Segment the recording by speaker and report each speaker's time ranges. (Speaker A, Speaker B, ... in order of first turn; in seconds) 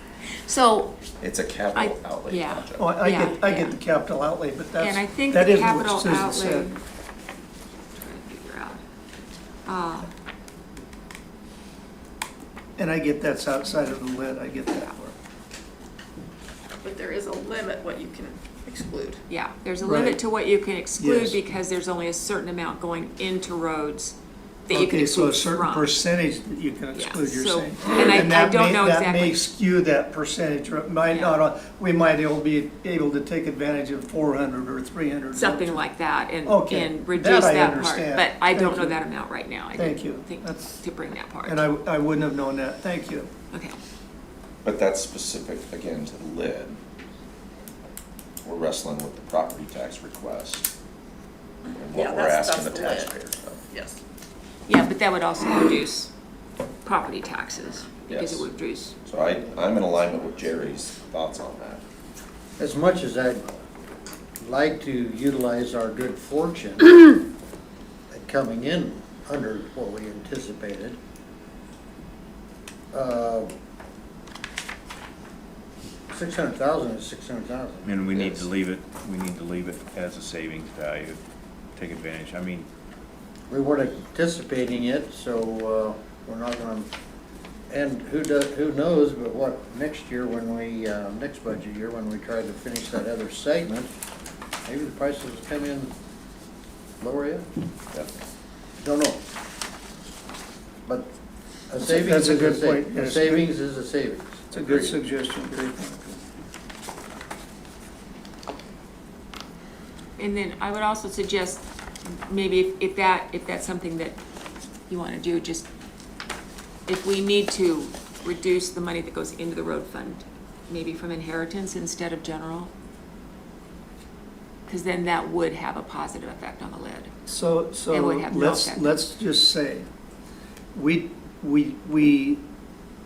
Speaker A: 0.4-0.9, 1.7-3.8, 4.8-6.8, 8.0-8.8, 9.7-10.1, 19.3-24.1, 24.7-25.9, 26.9-29.4, 31.1-31.3, 35.3-41.6, 54.7-56.1, 56.8-58.9, 110.2-114.2, 114.9-115.7, 116.9-122.7, 124.7-127.1, 127.9-128.9
Speaker B: 1.2-3.0, 44.6-46.8, 48.4-50.7, 51.7-53.6, 58.1-58.5, 59.0-61.8, 104.5-105.0
Speaker C: 2.8-6.8, 12.8-15.1, 19.8-20.2, 20.9-21.4, 24.7-35.9, 36.4-39.2, 39.7-40.8, 41.4-43.3, 101.8-103.5, 104.5-106.2, 127.2-129.9, 130.7-132.4
Speaker D: 16.8-19.2, 51.9-53.1, 53.7-54.0
Speaker E: 62.6-63.5, 64.4-67.2, 68.1-71.0, 72.9-73.5, 76.1-78.5, 83.5-86.9, 87.7-93.9, 94.7-95.9, 97.0-97.5, 98.8-99.2, 101.7-104.4
Speaker F: 77.8-81.2, 81.8-82.7